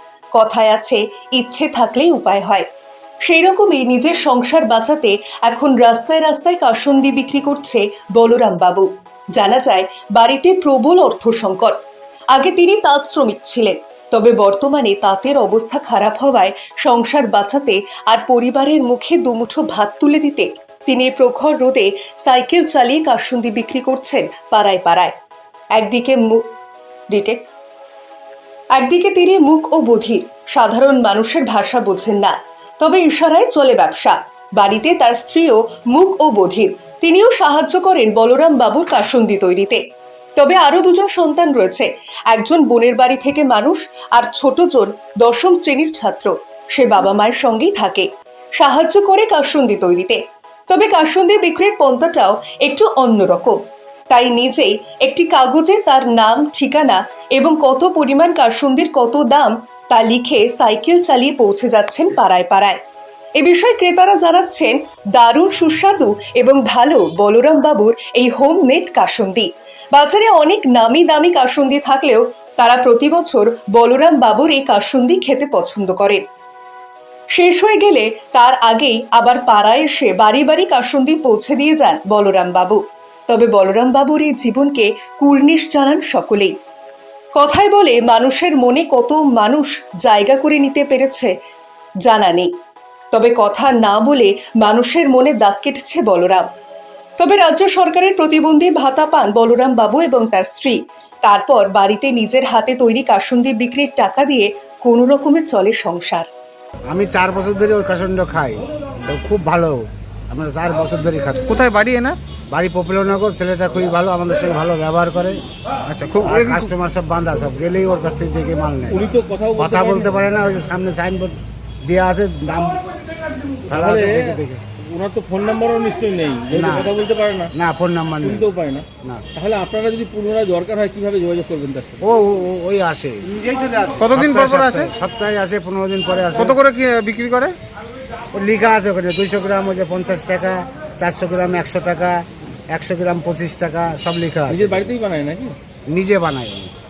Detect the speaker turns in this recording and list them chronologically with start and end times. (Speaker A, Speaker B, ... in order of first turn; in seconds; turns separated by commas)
Speaker A: 0.3-2.6, Speaker A: 3.2-11.8, Speaker A: 12.3-25.1, Speaker A: 25.8-26.4, Speaker A: 27.1-27.4, Speaker A: 28.8-39.8, Speaker A: 40.4-48.1, Speaker A: 48.6-53.6, Speaker A: 54.1-62.8, Speaker A: 63.4-76.2, Speaker A: 77.3-86.5, Speaker A: 87.4-91.3, Speaker A: 92.0-92.5, Speaker A: 93.1-96.5, Speaker A: 97.2-106.3, Speaker B: 106.9-111.6, Speaker C: 111.5-112.2, Speaker B: 112.5-119.0, Speaker C: 116.2-116.7, Speaker D: 118.9-120.2, Speaker B: 119.6-122.8, Speaker D: 123.7-127.5, Speaker B: 123.7-124.6, Speaker B: 126.5-126.9, Speaker B: 127.5-128.4, Speaker D: 128.2-132.0, Speaker B: 132.0-133.3, Speaker C: 133.4-134.9, Speaker B: 134.1-136.6, Speaker C: 136.4-137.6, Speaker B: 138.3-144.9, Speaker D: 144.5-145.6, Speaker B: 145.9-146.7